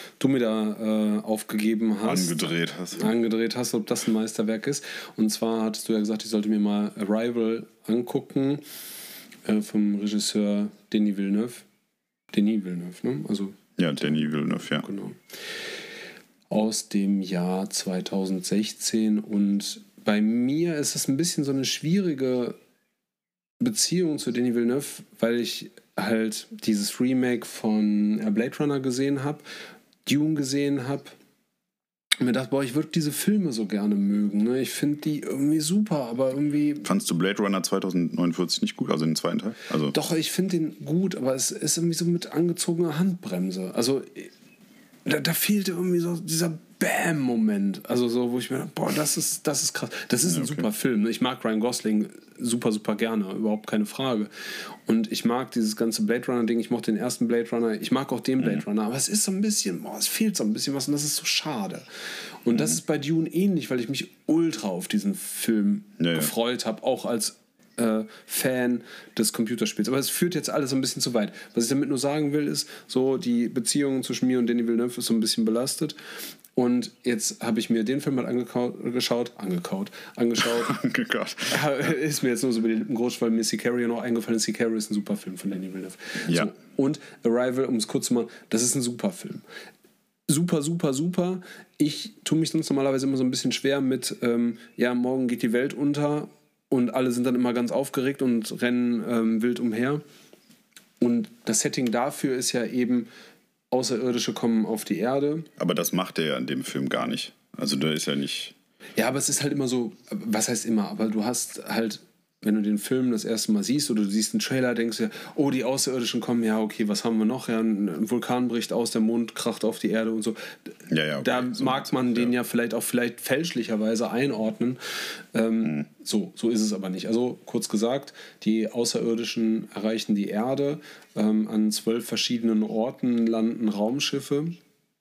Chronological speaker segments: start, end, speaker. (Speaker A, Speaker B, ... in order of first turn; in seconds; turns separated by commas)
Speaker A: 0.2-8.7, Speaker B: 2.0-3.1, Speaker A: 9.4-11.6, Speaker A: 12.3-13.6, Speaker B: 13.8-14.9, Speaker A: 14.5-15.2, Speaker A: 16.5-22.6, Speaker A: 23.6-29.4, Speaker A: 30.1-31.1, Speaker A: 32.2-36.9, Speaker B: 36.8-40.0, Speaker A: 39.9-44.3, Speaker A: 45.0-54.3, Speaker B: 50.3-50.7, Speaker A: 54.9-61.9, Speaker A: 62.5-76.0, Speaker B: 66.0-66.3, Speaker A: 76.5-80.8, Speaker B: 80.6-81.9, Speaker A: 81.5-89.4, Speaker A: 90.3-100.0, Speaker A: 101.0-103.1, Speaker A: 103.7-105.5, Speaker B: 105.6-108.5, Speaker A: 109.0-120.7, Speaker B: 120.9-122.3, Speaker A: 121.2-124.8, Speaker A: 125.3-134.6